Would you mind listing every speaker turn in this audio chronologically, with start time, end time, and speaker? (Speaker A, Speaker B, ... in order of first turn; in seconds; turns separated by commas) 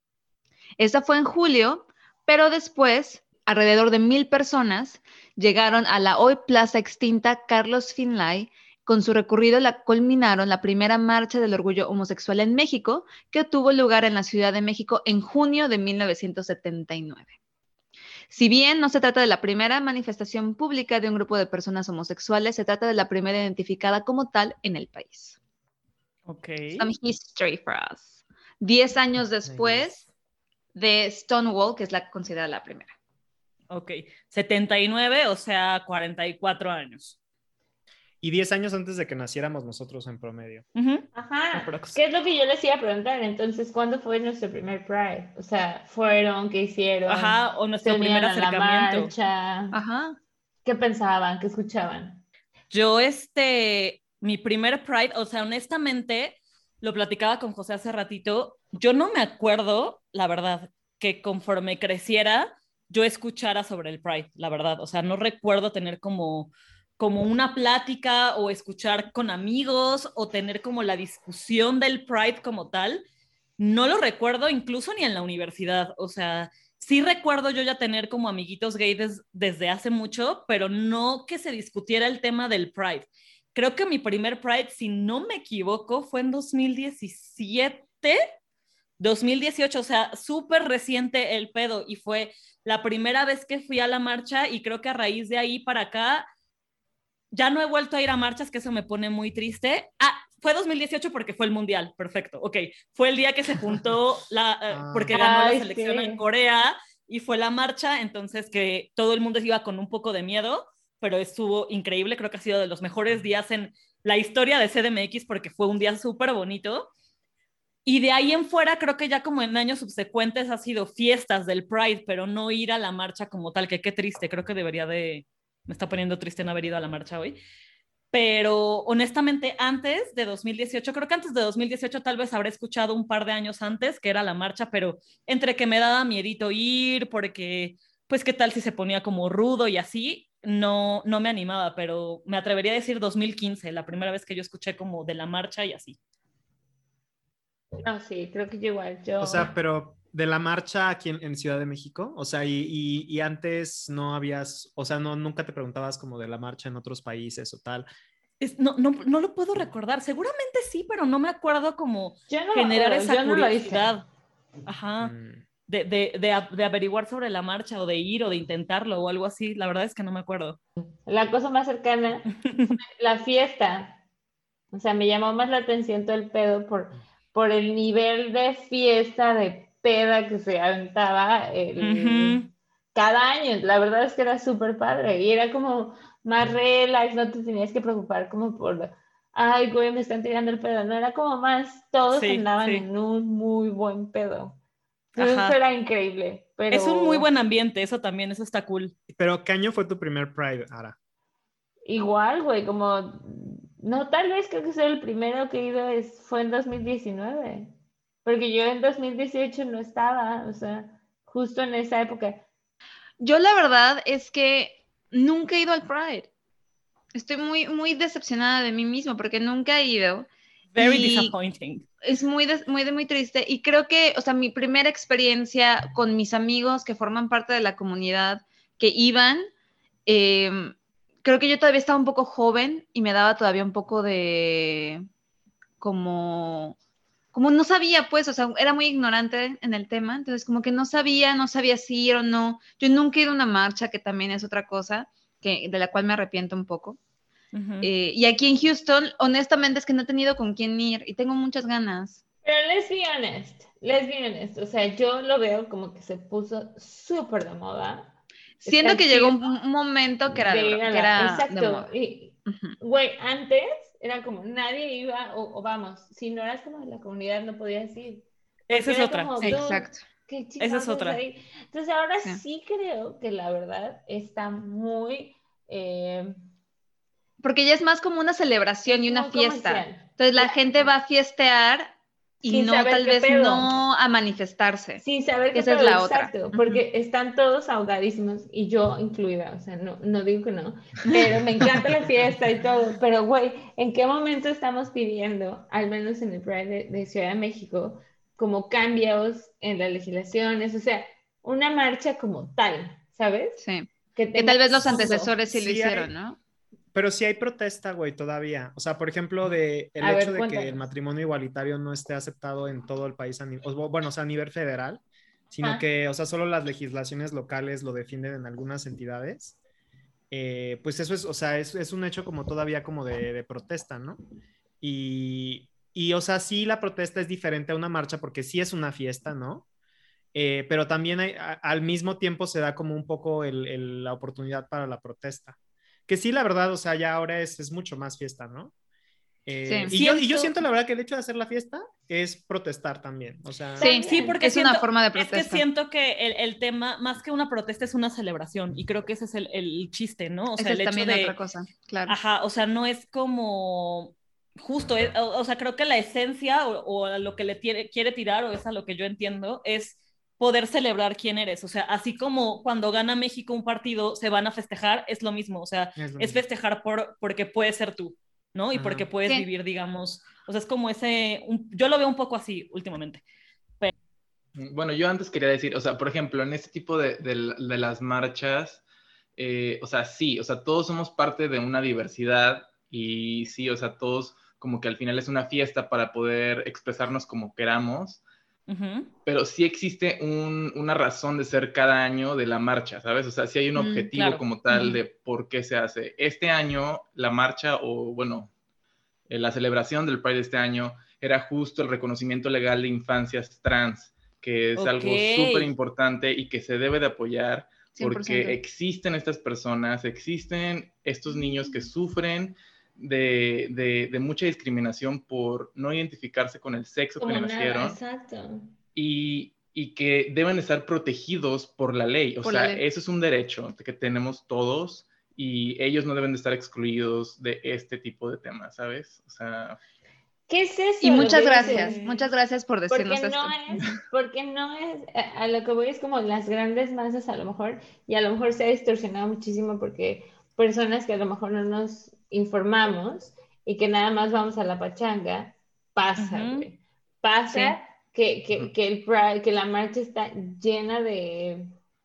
Speaker A: 0.8-17.3, Speaker A: 18.3-25.4, Speaker B: 26.3-26.9, Speaker A: 26.7-30.0, Speaker C: 29.4-30.1, Speaker A: 30.8-32.9, Speaker B: 33.7-37.2, Speaker C: 38.2-40.6, Speaker B: 40.8-42.0, Speaker D: 41.1-49.8, Speaker B: 47.1-49.1, Speaker A: 49.7-50.2, Speaker D: 50.6-52.2, Speaker B: 52.7-73.0, Speaker B: 73.6-88.2, Speaker B: 89.0-96.3, Speaker B: 97.3-116.9, Speaker C: 104.7-105.2, Speaker D: 105.1-106.2, Speaker B: 117.8-127.4, Speaker B: 128.1-146.0, Speaker D: 147.8-149.5, Speaker C: 149.2-157.9, Speaker B: 158.4-164.1, Speaker D: 162.3-163.9, Speaker B: 164.7-165.1, Speaker C: 165.0-165.4, Speaker B: 165.7-170.6, Speaker D: 171.1-174.0, Speaker B: 172.4-172.8, Speaker D: 174.7-194.6, Speaker B: 181.8-182.5, Speaker B: 192.1-192.9, Speaker D: 195.2-197.3, Speaker B: 195.2-195.6, Speaker B: 196.7-198.9, Speaker C: 199.1-200.9, Speaker D: 201.9-207.7, Speaker D: 208.2-212.4, Speaker A: 213.2-216.3, Speaker A: 217.1-221.3, Speaker B: 220.7-221.8, Speaker A: 222.0-229.5, Speaker A: 230.1-235.1, Speaker A: 235.8-236.8, Speaker A: 237.3-247.0, Speaker B: 247.5-247.9, Speaker A: 247.8-252.2, Speaker D: 252.4-258.1, Speaker A: 258.6-261.9, Speaker D: 258.7-259.6, Speaker D: 260.3-276.4, Speaker A: 262.4-262.8, Speaker B: 268.7-269.6, Speaker A: 269.4-270.1, Speaker B: 270.6-271.2, Speaker A: 277.4-285.0, Speaker D: 278.9-280.9, Speaker D: 282.5-283.7, Speaker D: 285.0-303.6, Speaker A: 285.5-286.8, Speaker A: 303.6-306.4, Speaker D: 304.1-305.4, Speaker C: 305.5-306.1, Speaker C: 306.9-319.6, Speaker D: 310.0-310.8, Speaker C: 320.3-324.2, Speaker C: 324.8-329.6, Speaker C: 330.3-335.6, Speaker C: 336.1-338.7, Speaker C: 339.5-343.9, Speaker A: 339.7-339.9, Speaker B: 339.9-340.6, Speaker D: 343.8-344.4, Speaker A: 343.8-345.6, Speaker B: 343.9-351.4, Speaker A: 350.6-352.1, Speaker B: 352.1-373.2, Speaker C: 366.0-366.4, Speaker C: 368.7-369.1, Speaker E: 374.6-378.8, Speaker E: 379.4-388.2, Speaker B: 388.7-389.1, Speaker E: 389.3-398.5, Speaker A: 393.8-394.1, Speaker B: 394.1-394.4, Speaker A: 394.7-395.0, Speaker E: 399.3-418.0, Speaker B: 404.8-405.7, Speaker A: 407.9-408.6, Speaker D: 417.2-418.7, Speaker E: 418.9-429.8, Speaker A: 422.4-422.8, Speaker D: 430.5-432.0, Speaker A: 431.0-434.0, Speaker B: 431.2-432.3, Speaker D: 432.9-451.7, Speaker B: 446.2-446.7, Speaker A: 447.5-447.8